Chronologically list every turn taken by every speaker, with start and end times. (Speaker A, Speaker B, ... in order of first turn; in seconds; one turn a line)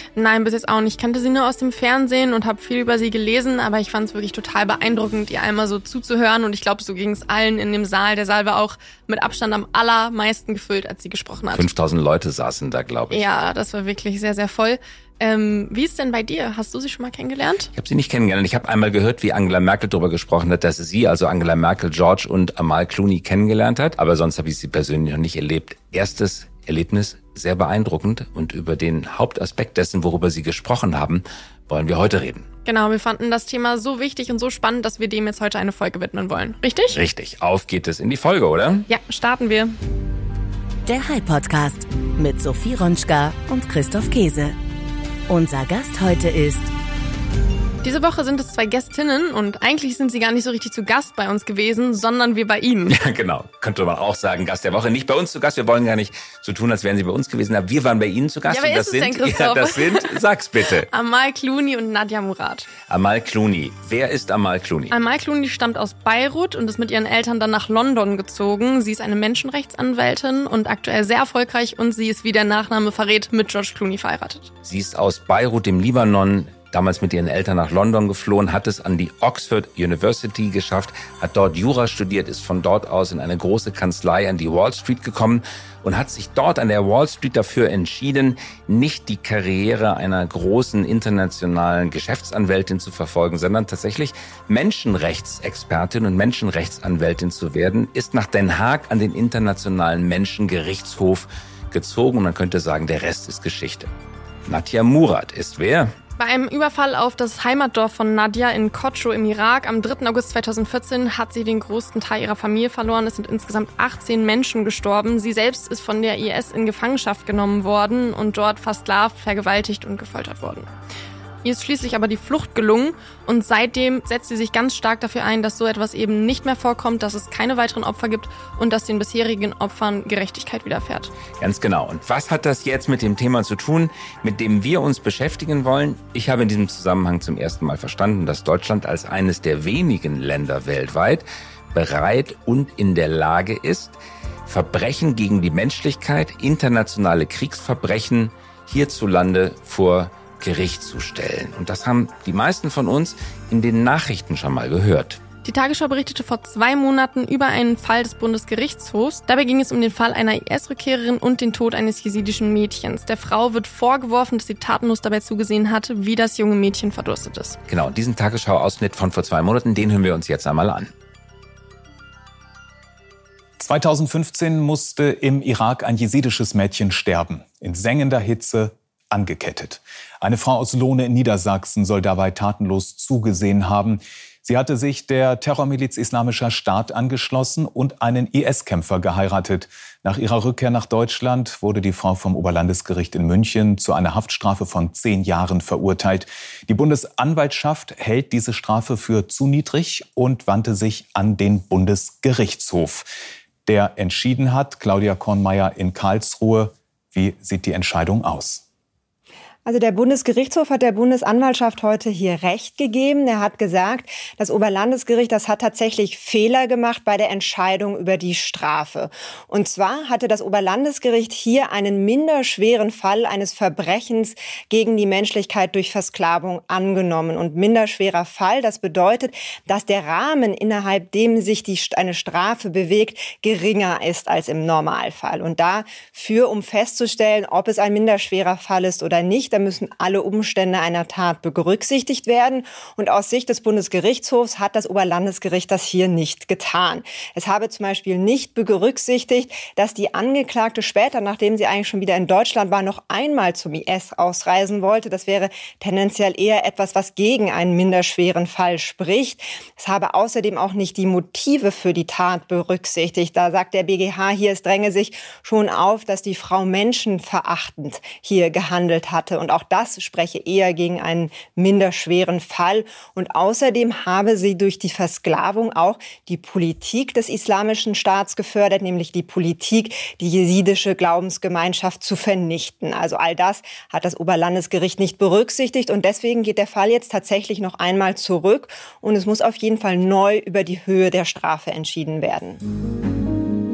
Speaker A: 0.2-11.7
Speaker B: 11.5-13.3
Speaker A: 13.1-17.7
Speaker B: 17.7-32.5
Speaker A: 32.7-37.0
Speaker B: 36.9-38.9
Speaker A: 38.9-39.7
Speaker C: 40.9-44.6
Speaker C: 45.3-46.7
Speaker A: 47.8-53.0
Speaker B: 52.9-60.9
Speaker A: 58.5-60.2
Speaker A: 60.9-62.7
Speaker B: 62.9-64.9
Speaker A: 64.9-74.5
Speaker B: 74.6-103.9
Speaker B: 104.5-105.9
Speaker A: 106.2-120.7
Speaker A: 121.4-131.1
Speaker B: 131.4-143.9
Speaker B: 144.5-155.2
Speaker A: 155.4-167.6
Speaker B: 167.7-170.9
Speaker D: 173.6-203.1
Speaker D: 203.7-208.6
Speaker E: 209.7-292.6